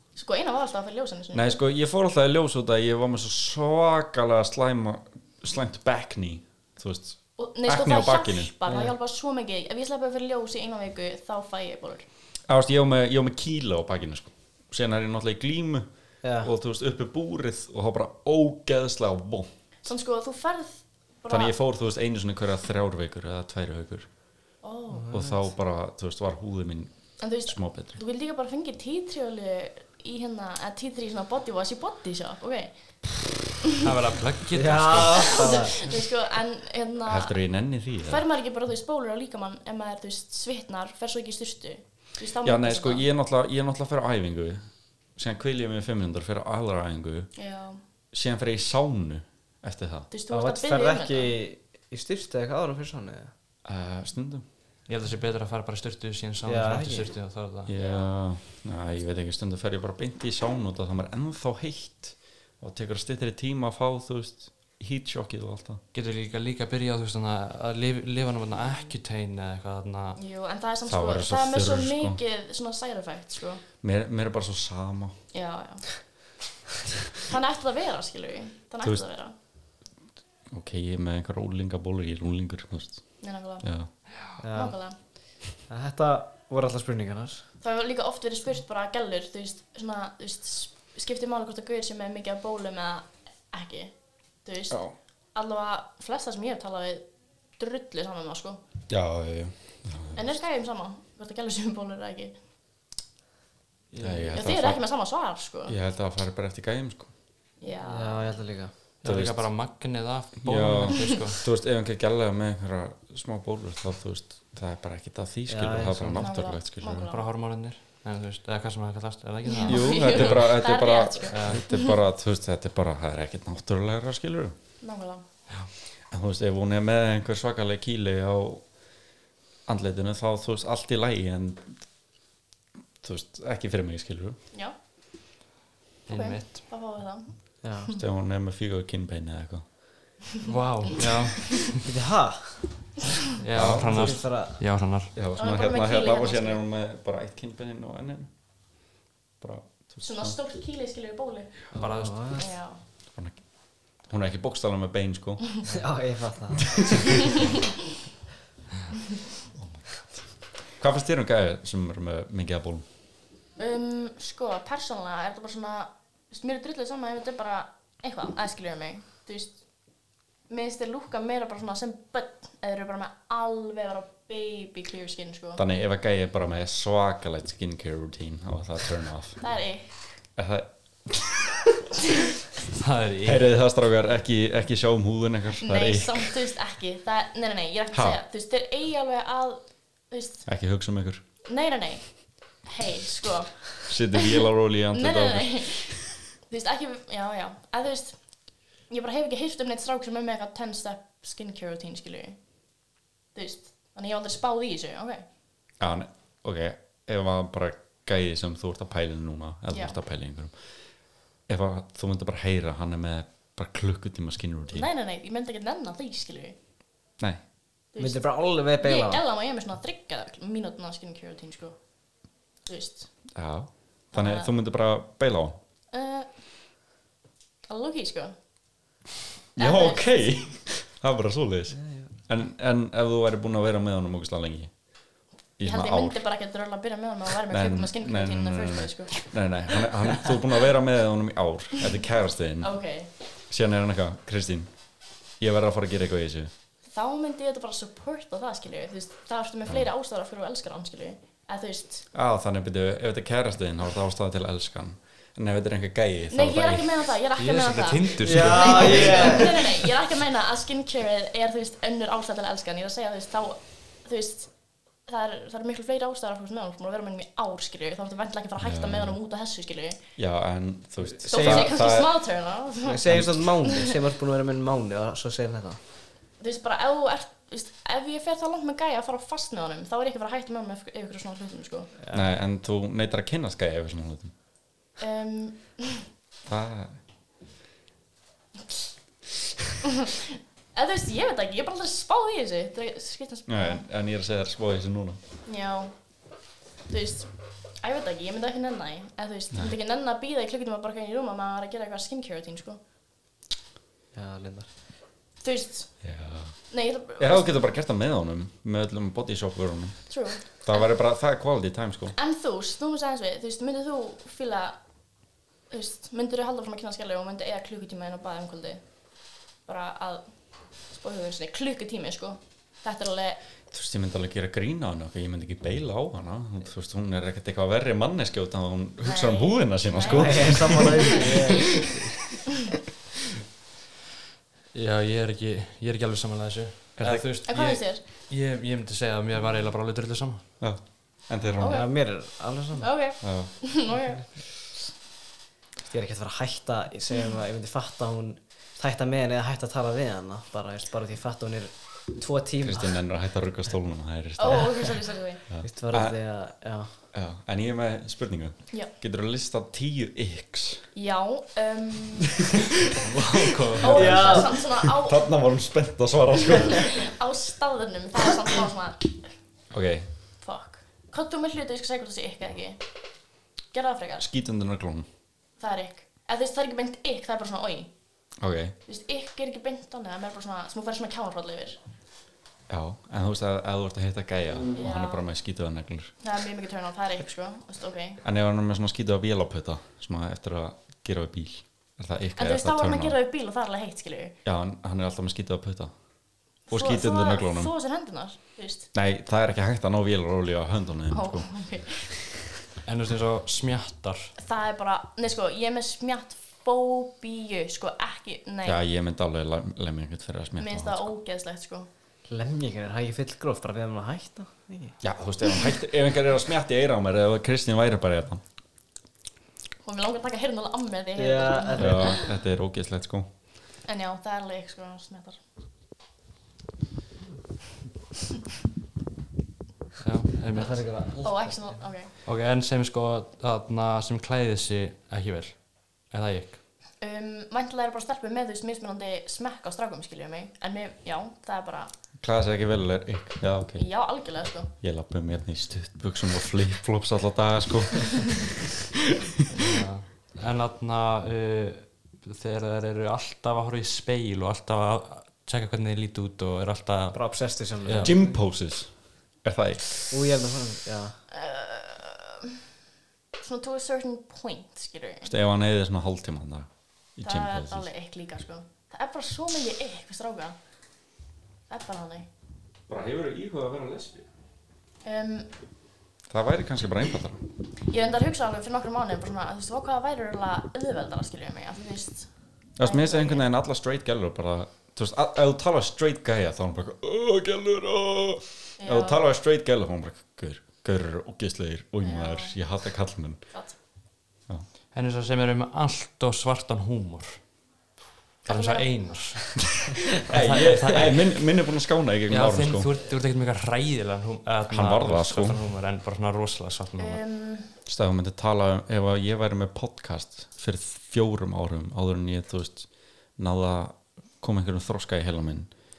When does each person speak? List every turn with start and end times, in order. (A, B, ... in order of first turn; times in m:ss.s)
0:00.2-0:01.6 A
0:01.3-0:08.5 B
0:07.4-0:12.0 A
0:08.7-0:08.9 C
0:12.5-0:15.9 B
0:16.2-0:16.5 C
0:16.4-0:19.5 B
0:19.8-0:21.5 A
0:21.3-0:24.1 B
0:24.6-0:25.2 A
0:24.9-0:25.3 C
0:25.1-0:28.0 B
0:27.2-0:33.0 A
0:33.8-0:35.8 D
0:34.5-0:35.7 C
0:35.1-0:37.3 A
0:37.0-0:38.2 B
0:38.0-0:43.0 A
0:42.4-0:47.3 B
0:47.4-0:47.8 A
0:48.1-0:50.1 B
0:50.1-0:51.4 A
0:50.3-0:53.3 C
0:53.6-0:54.4 B
0:54.9-0:57.7 D
0:56.4-0:57.1 C
0:57.6-1:05.8 B
0:57.8-0:58.1 A
1:05.9-1:10.2 D
1:10.2-1:13.6 A
1:10.8-1:12.2 B
1:13.8-1:15.2 B
1:15.3-1:16.0 A
1:17.2-1:19.3 A
1:20.5-1:23.9 B
1:23.2-1:23.7 A
1:24.4-1:24.8 C
1:24.5-1:25.0 A
1:25.7-1:27.4 C
1:27.6-1:34.8 A
1:34.7-1:34.9 B
1:35.3-1:37.0 A
1:37.6-1:38.6 A
1:38.9-1:40.3 B
1:40.1-1:42.3 A
1:43.9-1:44.4 C
1:44.0-1:44.8 B
1:44.3-1:45.7 A
1:45.7-1:47.1 B
1:47.6-1:48.2 A
1:47.9-1:48.7 C
1:49.0-1:51.4 D
1:49.0-1:49.5 B
1:50.4-1:57.1 B
1:55.5-1:56.3 C
1:56.2-1:57.2 A
1:57.1-2:00.4 D
1:59.4-2:01.9 A
1:59.6-2:04.5 B
2:01.3-2:01.6 D
2:04.8-2:05.2 A
2:06.1-2:08.6 B
2:09.7-2:11.8 B
2:13.0-2:14.4 B
2:16.1-2:16.7 D
2:16.1-2:18.0 A
2:17.6-2:17.9 C
2:17.9-2:19.6 B
2:20.4-2:21.8 D
2:21.8-2:22.7 C
2:23.4-2:25.1 D
2:23.5-2:24.1 B
2:23.6-2:24.5 C
2:25.1-2:28.3 B
2:25.4-2:26.6 A
2:29.4-2:30.4 B
2:30.0-2:31.7 A
2:31.7-2:32.5 C
2:31.8-2:32.2 D
2:32.4-2:32.8 A
2:33.1-2:33.4 B
2:34.0-2:35.5 B
2:35.7-2:37.0 C
2:36.8-2:37.1 B
2:39.5-2:42.8 B
2:43.6-2:49.6 A
2:50.5-2:55.6 A
2:55.6-2:59.4 B
2:59.4-3:00.1 A
3:00.4-3:01.5 B
3:02.7-3:03.4 D
3:03.2-3:06.4 B
3:05.6-3:10.4 A
3:07.9-3:08.2 B
3:10.4-3:11.2 B
3:11.5-3:18.2 A
3:13.9-3:16.1 B
3:18.8-3:22.4 A
3:23.3-3:25.2 A
3:25.8-3:30.6 B
3:29.7-3:30.0 A
3:31.5-3:34.9 B
3:34.7-3:36.6 A
3:37.9-3:41.8 A
3:38.0-3:39.2 C
3:42.6-3:43.1 A
3:43.3-3:45.6 B
3:44.1-3:44.5 A
3:45.9-3:46.4 A
3:47.7-3:48.3 A
3:49.6-3:54.8 B
3:49.6-3:50.4 A
3:51.8-3:52.1 C
3:55.6-3:56.2 B
3:55.6-3:59.2 A
3:57.5-4:02.8 B
4:02.6-4:03.1 A
4:03.5-4:04.7 B
4:05.4-4:06.5 B
4:06.8-4:12.0 A
4:12.1-4:17.1 B
4:16.3-4:24.5 A
4:17.4-4:19.8 D
4:18.2-4:19.5 C
4:25.0-4:30.0 A
4:28.6-4:29.2 B
4:30.2-4:32.2 B
4:31.0-4:31.8 C
4:31.3-4:33.9 A
4:32.8-4:35.8 C
4:33.1-4:33.3 B
4:36.4-4:41.9 A
4:42.0-4:42.3 C
4:42.1-4:44.3 B
4:45.0-4:46.0 A
4:46.4-4:47.0 B
4:50.3-4:53.8 A
4:53.5-4:55.2 B
4:55.4-4:55.9 A
4:56.9-5:02.8 A
5:04.1-5:04.7 C
5:05.4-5:05.9 A
5:06.0-5:12.1 B
5:06.7-5:07.7 A
5:10.1-5:10.8 A
5:12.1-5:14.8 A
5:15.7-5:18.8 A
5:19.6-5:20.3 A
5:20.9-5:23.4 A
5:23.7-5:31.9 B
5:29.0-5:31.8 A
5:30.1-5:32.1 C
5:34.7-5:40.4 D
5:37.0-5:37.3 B
5:37.4-5:38.0 A
5:40.6-5:41.8 B
5:41.6-5:41.9 A
5:41.6-5:42.9 C
5:42.8-5:44.2 A
5:43.2-5:43.5 B
5:45.8-5:53.0 C
5:52.6-5:56.2 B
5:54.4-5:55.4 A
5:55.6-5:56.9 C
5:57.1-6:00.8 B
6:00.9-6:02.4 A
6:03.0-6:04.4 D
6:03.8-6:05.3 A
6:03.8-6:07.1 B
6:03.9-6:04.5 C
6:06.5-6:09.3 A
6:09.7-6:10.1 B
6:10.4-6:12.8 A
6:13.7-6:14.2 A
6:14.2-6:15.1 B
6:15.6-6:17.9 A
6:18.4-6:18.7 B
6:18.8-6:21.8 A
6:22.7-6:26.1 B
6:24.7-6:25.2 A
6:26.2-6:28.2 A
6:28.2-6:33.2 B
6:32.4-6:34.3 A
6:34.4-6:35.9 B
6:36.7-6:37.7 B
6:36.7-6:38.9 A
6:38.9-6:41.6 B
6:41.1-6:42.4 A
6:42.8-6:44.3 D
6:44.4-6:48.8 A
6:48.6-6:51.1 B
6:50.6-6:51.9 A
6:52.3-6:55.0 C
6:55.0-6:58.4 B
6:59.8-7:02.3 A
7:01.2-7:02.2 C
7:01.8-7:03.2 B
7:03.8-7:05.4 A
7:10.0-7:10.9 D
7:10.5-7:11.7 C
7:11.2-7:12.1 A
7:12.2-7:16.6 D
7:17.0-7:21.9 A
7:22.2-7:23.9 B
7:23.8-7:24.7 A
7:24.8-7:28.6 B
7:29.5-7:37.2 D
7:37.1-7:38.4 C
7:37.8-7:38.1 D
7:38.0-7:38.9 B
7:39.4-7:40.1 B
7:40.1-7:41.2 C
7:41.3-7:42.6 A
7:43.4-7:45.3 A
7:45.2-7:47.9 B
7:47.2-7:50.6 A
7:51.7-7:52.3 A
7:52.9-7:54.2 B
7:55.0-7:55.5 A
7:56.3-7:57.4 B
7:57.9-8:02.3 A
8:02.8-8:13.4 B
8:02.8-8:03.4 A
8:08.8-8:09.2 A
8:12.0-8:12.5 A
8:14.9-8:17.4 D
8:18.4-8:18.9 A
8:18.4-8:21.4 D
8:20.3-8:22.9 B
8:22.3-8:27.2 D
8:24.7-8:25.6 B
8:27.0-8:27.7 A
8:27.8-8:35.7 B